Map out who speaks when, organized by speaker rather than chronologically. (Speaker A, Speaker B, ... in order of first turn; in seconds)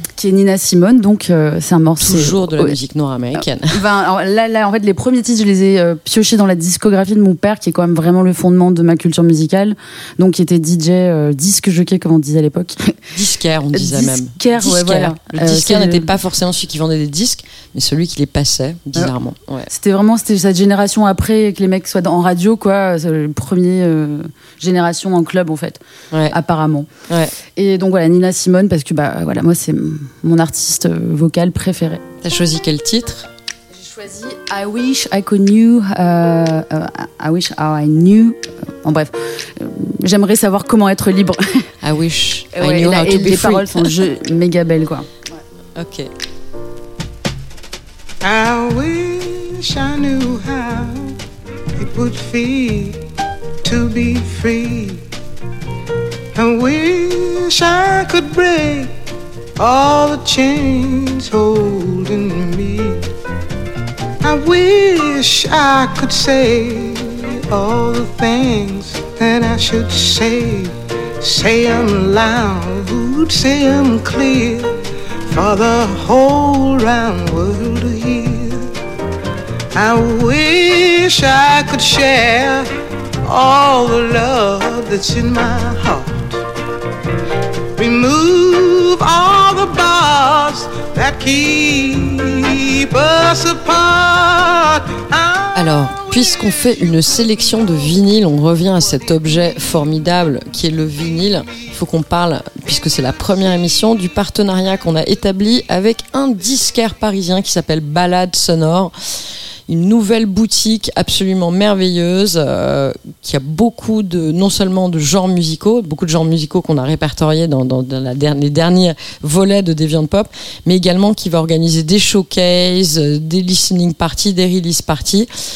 Speaker A: 0.2-2.7, 3.4-13.0, 13.7-16.1, 19.7-26.9, 27.6-32.0, 33.7-41.7, 42.5-45.1
Speaker B: 2.0-3.8, 13.1-19.7, 27.1-27.3, 32.2-33.3, 41.8-43.9, 45.8-46.1, 95.5-108.9, 109.7-125.3
Speaker C: 48.2-51.1, 51.8-53.0, 53.6-55.0, 56.3-58.9, 59.6-63.0, 64.2-74.8, 75.3-78.7, 79.7-82.7, 83.2-86.4, 87.8-95.6